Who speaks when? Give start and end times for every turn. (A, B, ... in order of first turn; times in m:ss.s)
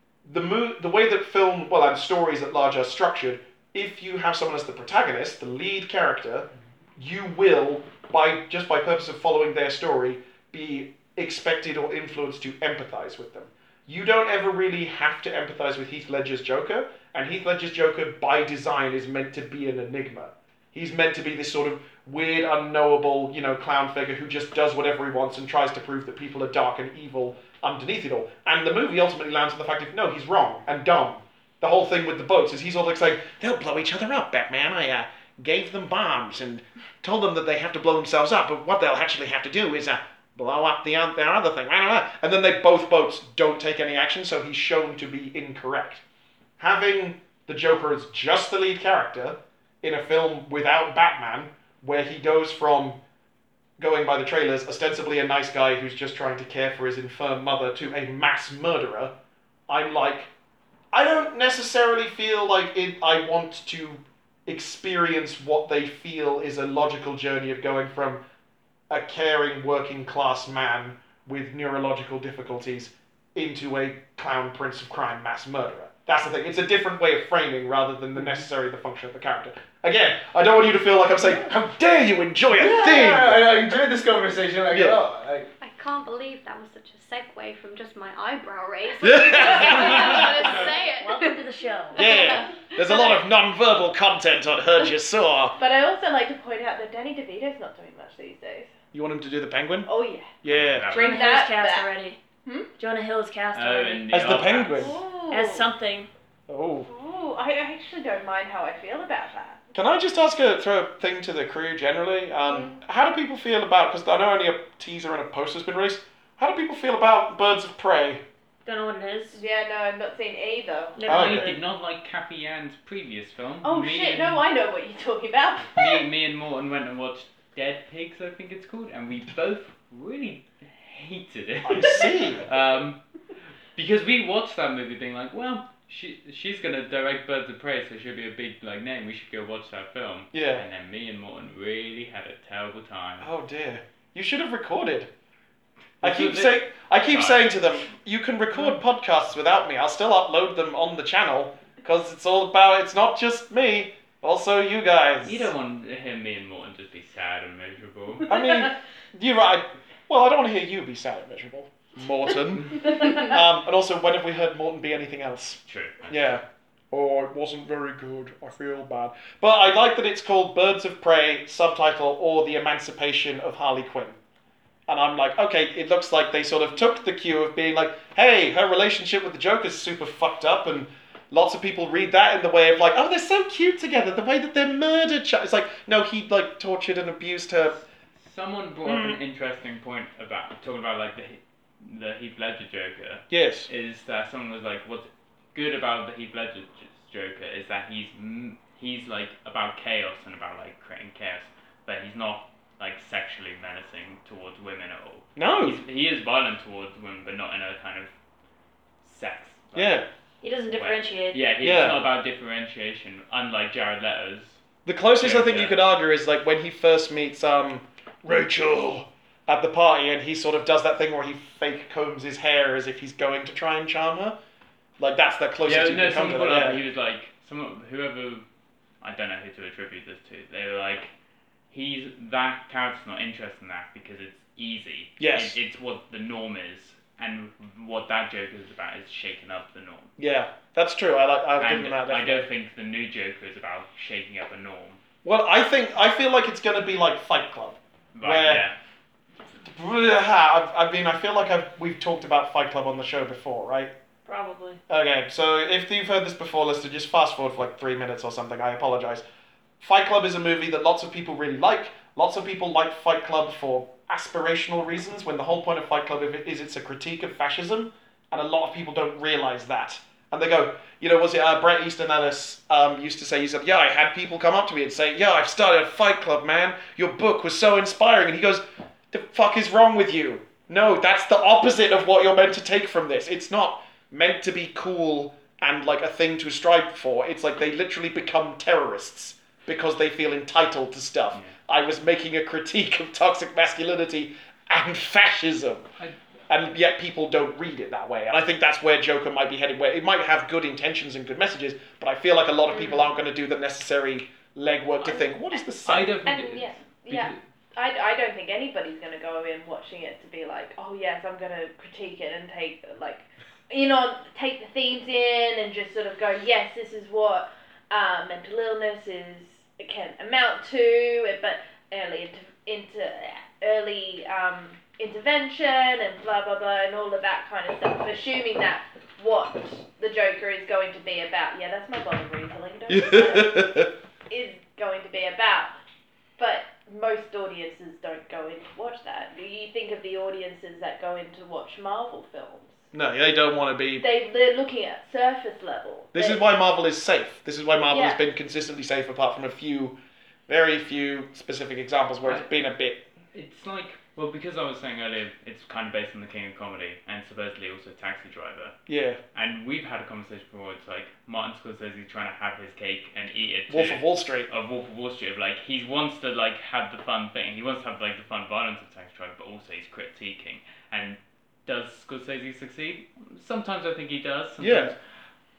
0:00.2-0:46.0 A
0:46.6-0:53.0 A
0:53.8-0:59.1 A
0:59.7-1:00.3 A
1:00.9-1:08.2 A
1:08.9-1:23.8 A
1:22.6-1:25.5 B
1:24.7-1:25.0 A
1:25.6-1:31.4 C
1:29.0-1:30.6 A
1:29.4-1:32.3 D
1:32.0-1:33.2 C
1:32.0-1:35.6 A
1:35.6-1:38.7 E
1:38.9-1:39.9 A
1:39.9-1:40.3 E
1:40.4-1:40.9 A
1:40.5-1:41.3 F
1:40.9-1:41.9 E
1:40.9-1:42.2 D
1:42.8-1:44.1 D
1:43.5-1:45.0 F
1:44.1-1:45.0 A
1:44.8-1:45.7 E
1:45.3-1:46.1 D
1:46.5-1:46.9 A
1:46.9-1:49.6 E
1:49.7-1:58.2 A
1:58.6-1:59.4 D
1:59.3-2:01.1 E
2:01.0-2:01.5 D
2:01.1-2:04.4 F
2:01.1-2:01.5 A
2:03.6-2:06.0 E
2:05.8-2:13.0 F
2:11.6-2:12.5 A
2:13.8-2:23.3 F
2:20.3-2:20.6 A
2:23.2-2:25.1 A
2:26.0-2:27.8 F
2:26.0-2:35.5 A
2:35.2-2:38.3 F
2:38.3-2:54.2 A
2:43.0-2:43.3 E
2:45.7-2:46.4 F
2:54.9-3:07.8 A
3:07.7-3:28.1 F
3:08.8-3:09.2 A
3:13.3-3:13.7 A
3:25.4-3:25.8 A
3:29.0-3:30.1 F
3:29.8-3:30.1 A
3:30.4-3:31.4 D
3:30.7-3:34.6 F
3:31.6-3:32.1 A
3:34.8-3:44.4 A
3:35.2-3:35.8 F
3:45.0-3:46.8 A
3:45.6-3:48.4 F
3:49.0-3:51.1 F
3:51.7-4:00.1 F
3:55.2-3:55.6 A
4:00.2-4:02.5 A
4:01.6-4:05.0 F
4:05.2-4:08.6 A
4:08.2-4:08.8 F
4:09.6-4:13.9 A
4:14.3-4:14.8 D
4:14.9-4:19.2 A
4:19.8-4:55.8 A
4:56.5-5:06.1 A
5:05.8-5:07.4 F
5:06.3-5:35.7 E
5:32.9-5:33.9 A
5:36.4-5:42.9 E
5:42.9-5:44.0 A
5:44.0-5:46.4 E
5:46.1-5:50.0 A
5:47.9-5:48.2 E
5:50.5-5:53.0 A
5:52.2-5:52.5 F
5:53.3-5:58.8 F
5:58.9-5:59.2 A
5:59.3-6:15.0 F
6:03.7-6:04.5 A
6:14.6-6:14.9 A